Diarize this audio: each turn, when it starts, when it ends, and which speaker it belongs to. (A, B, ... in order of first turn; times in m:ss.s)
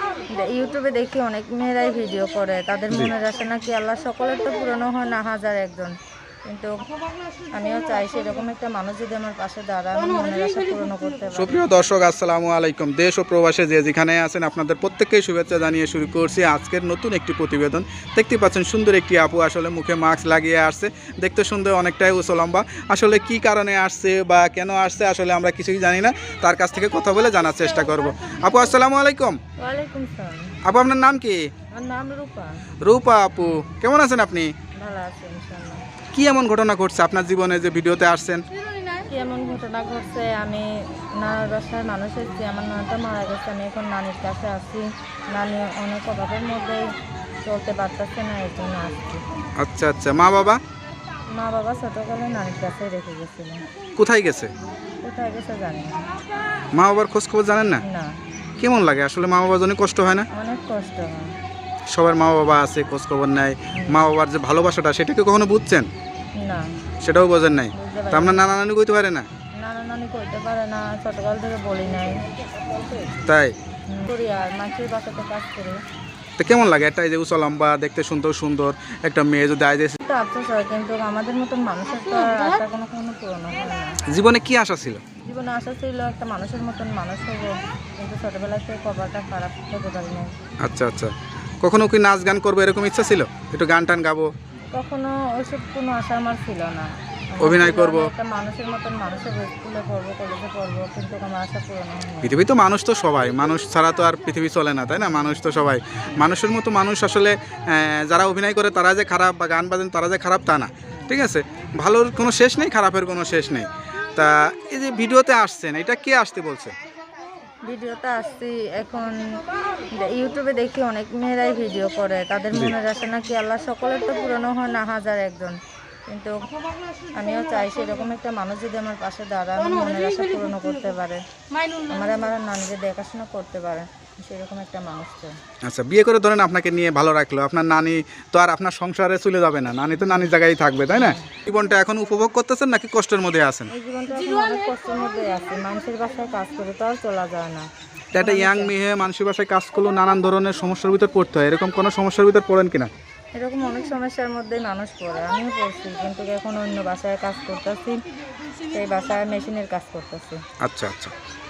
0:00.3-0:06.0 A
0:06.5-0:06.8 A
0:07.5-0:11.6 A
0:11.4-0:29.4 B
0:29.6-0:30.6 A
0:30.6-0:31.5 B
0:31.7-0:32.6 A
0:32.8-0:34.5 B
0:34.8-0:35.8 A
0:36.1-0:38.4 B
0:39.0-0:46.9 A
0:47.4-0:49.2 A
0:49.6-0:50.6 B
0:51.3-0:53.6 A
0:54.0-0:54.5 B
0:55.0-0:56.1 A
0:56.7-0:57.8 B
0:57.8-0:58.2 A
0:58.6-1:00.3 B
1:00.3-1:01.3 A
1:01.9-1:05.9 B
1:03.7-1:04.0 A
1:06.4-1:06.7 A
1:07.0-1:09.3 B
1:07.7-1:08.4 A
1:09.6-1:13.2 A
1:13.3-1:13.6 B
1:13.9-1:15.8 A
1:16.4-1:20.0 B
1:20.0-1:24.0 A
1:24.1-1:25.0 B
1:25.2-1:30.3 A
1:30.6-1:34.3 B
1:34.7-1:42.4 A
1:37.4-1:38.1 B
1:42.2-1:56.8 B
1:57.7-1:59.4 A
2:00.0-2:05.6 A
2:06.1-2:06.5 A
2:07.1-2:15.4 A
2:15.6-2:23.7 B
2:20.0-2:20.3 A
2:21.0-2:21.4 A
2:23.7-2:28.7 A
2:28.1-2:32.9 B
2:33.4-2:38.0 A
2:38.7-2:40.4 A
2:40.6-2:41.1 B